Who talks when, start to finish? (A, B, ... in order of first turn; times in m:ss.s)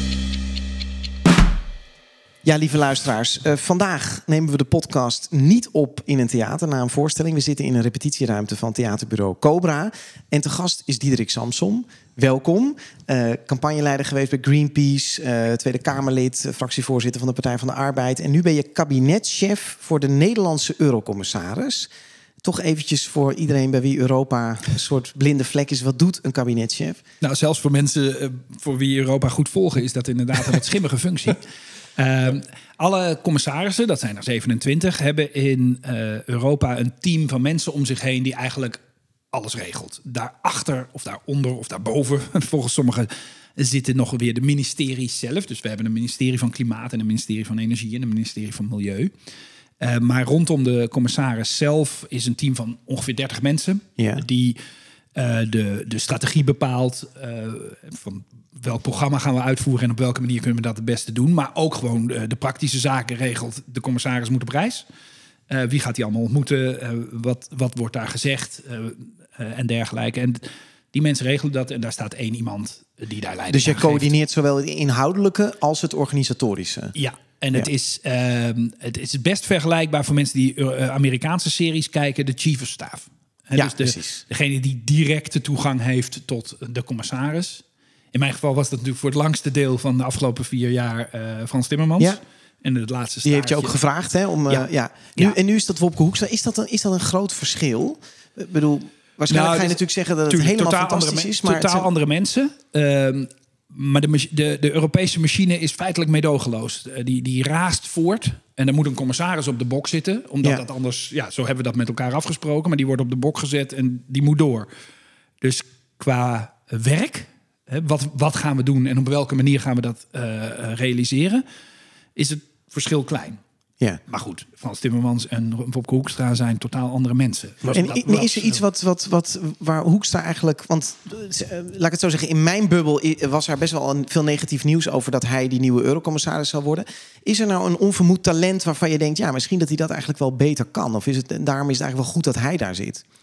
0:02.4-0:21.9 A
0:22.4-0:27.0 A
0:27.2-0:31.4 B
0:32.0-0:38.8 B
0:39.3-0:49.1 B
0:49.8-0:54.6 B
0:54.0-0:54.2 A
0:55.1-1:04.9 B
1:05.5-1:14.1 B
1:13.5-1:16.9 A
1:16.9-1:33.8 B
1:23.6-1:24.2 A
1:33.2-1:41.9 A
1:34.5-1:35.4 B
1:39.3-1:54.7 B
1:55.4-2:01.4 B
2:02.2-2:03.4 B
2:04.1-2:08.6 B
2:07.7-2:23.0 A